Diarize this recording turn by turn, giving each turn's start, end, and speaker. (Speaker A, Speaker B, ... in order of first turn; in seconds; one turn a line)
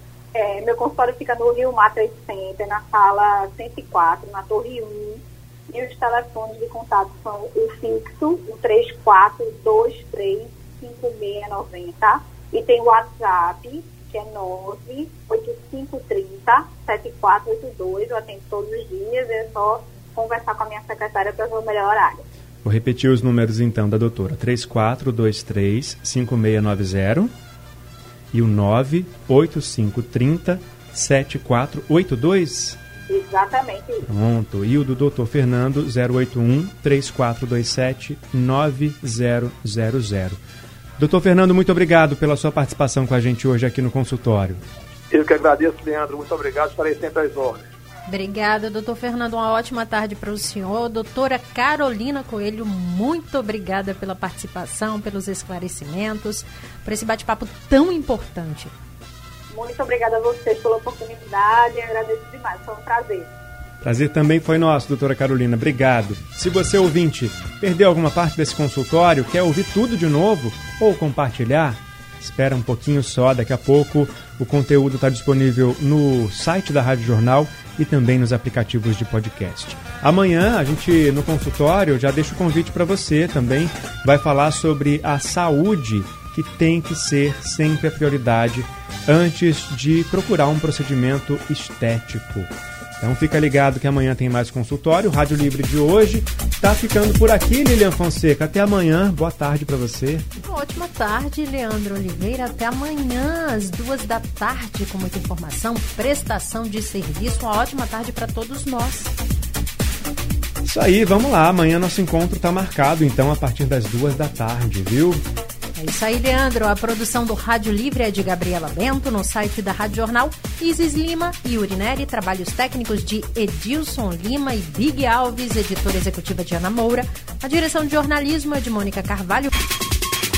Speaker A: 0.3-22.2
Speaker B: 22.6-27.3
Speaker B: 28.3-32.8
Speaker A: 33.1-34.0
Speaker B: 34.0-40.4
Speaker B: 41.0-44.6
Speaker C: 45.1-47.6
Speaker D: 48.1-58.7
Speaker A: 59.5-63.3
Speaker B: 63.8-100.3
Speaker D: 100.4-109.1
Speaker B: 110.6-115.2
Speaker D: 115.8-129.5